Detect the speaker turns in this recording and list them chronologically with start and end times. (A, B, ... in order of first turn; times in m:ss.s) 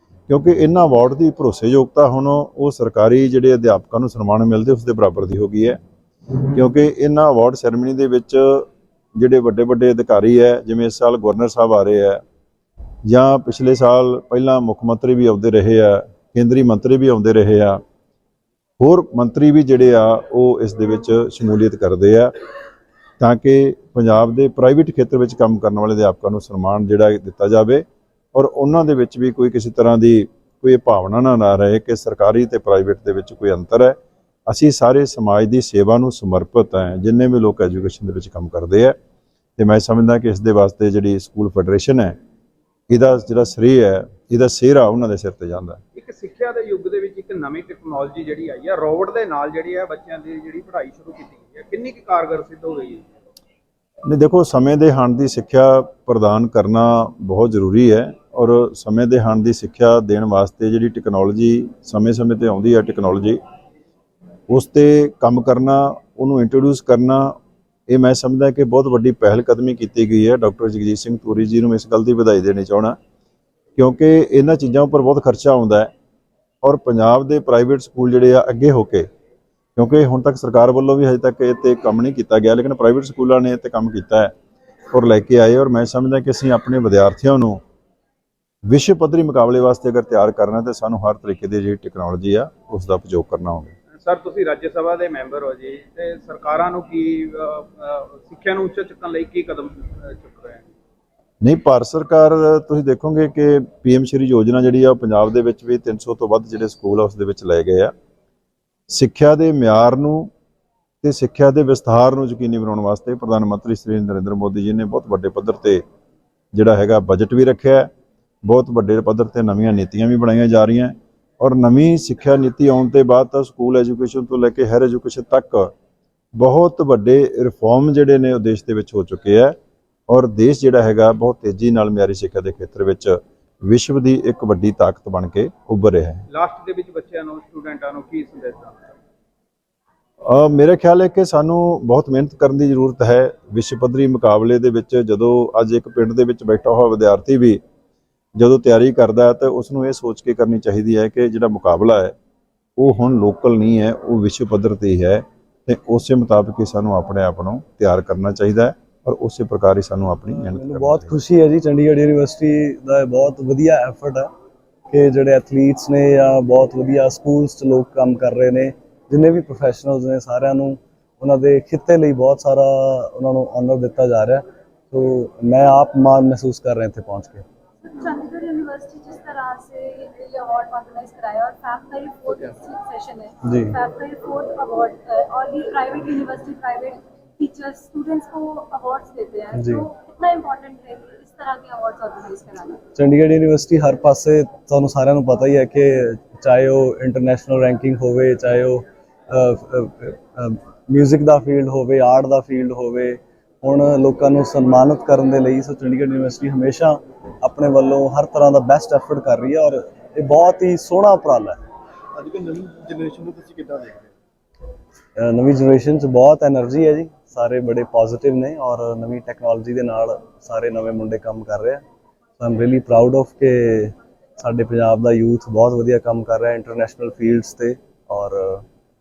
0:00.3-0:05.8 A
0:06.5-0:12.2 A
0:13.1-0:17.8 A
0:18.8-0:22.3 A
0:23.2-0:34.0 A
0:34.5-0:39.0 A
0:39.6-0:42.2 A
0:42.9-0:45.8 A
0:46.0-0:53.1 B
0:54.1-1:03.4 A
1:04.5-1:07.4 A
1:07.9-1:13.0 A
1:13.8-1:15.9 A
1:16.6-1:19.1 A
1:19.8-1:24.3 A
1:24.9-1:27.6 A
1:28.7-1:33.7 A
1:34.0-1:40.7 B
1:41.4-1:47.9 A
1:48.9-1:50.3 A
1:51.0-1:55.8 A
1:56.5-1:57.9 A
1:58.4-2:05.7 A
2:06.4-2:09.6 A
2:10.1-2:16.2 A
2:16.3-2:18.8 B
2:20.2-2:27.6 A
2:28.4-2:32.2 A
2:32.8-2:41.2 A
2:40.4-2:44.3 C
2:44.9-2:57.4 C
2:57.8-3:12.8 D
3:03.4-3:03.8 C
3:09.5-3:09.9 C
3:13.0-3:31.6 C
3:32.2-3:34.1 E
3:35.2-3:41.8 C
3:42.4-3:48.6 C